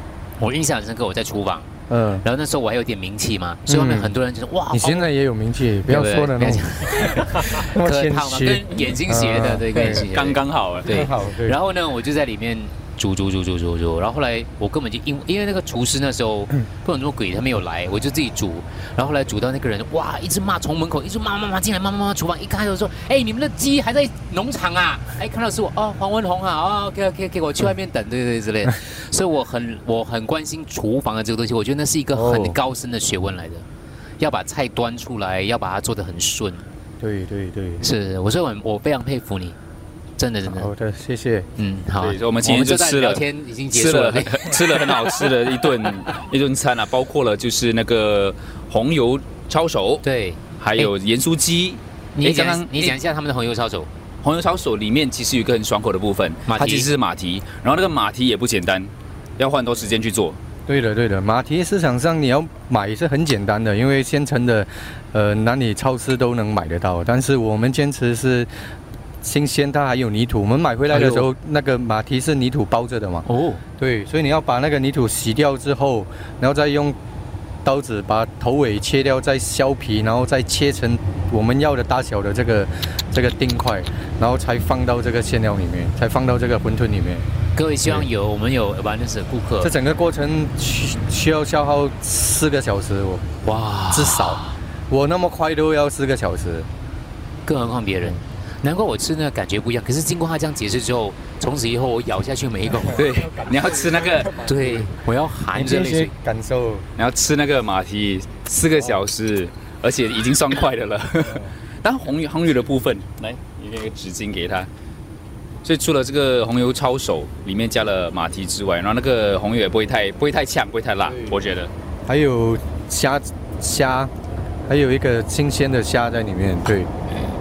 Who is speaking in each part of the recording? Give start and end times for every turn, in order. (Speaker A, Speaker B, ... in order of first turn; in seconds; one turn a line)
Speaker A: 0.4-1.7
Speaker B: 1.9-2.2
Speaker A: 2.2-5.1
Speaker B: 3.7-4.1
Speaker B: 4.7-10.1
Speaker A: 5.9-33.6
Speaker C: 9.9-11.0
Speaker B: 10.9-11.6
Speaker B: 32.1-32.6
Speaker A: 34.2-36.7
Speaker B: 37.0-37.9
Speaker A: 37.8-39.6
Speaker A: 40.2-40.7
Speaker B: 40.5-41.5
Speaker A: 41.6-44.9
Speaker C: 42.0-50.0
Speaker A: 50.0-50.9
Speaker C: 50.6-53.0
Speaker A: 52.2-53.9
Speaker C: 54.2-60.4
Speaker A: 56.5-56.9
Speaker B: 60.7-68.5
Speaker B: 69.2-73.3
Speaker A: 70.9-71.3
Speaker A: 73.3-73.6
Speaker B: 73.8-77.0
Speaker B: 77.6-87.3
Speaker A: 87.5-89.7
Speaker B: 89.6-93.2
Speaker A: 93.4-94.6
Speaker B: 93.9-96.7
Speaker A: 97.5-103.1
Speaker C: 102.9-104.5
Speaker B: 103.3-103.7
Speaker A: 104.4-106.1
Speaker B: 104.5-104.8
Speaker B: 105.5-106.9
Speaker C: 107.0-114.7
Speaker C: 115.6-121.7
Speaker B: 122.1-124.1
Speaker B: 124.7-126.9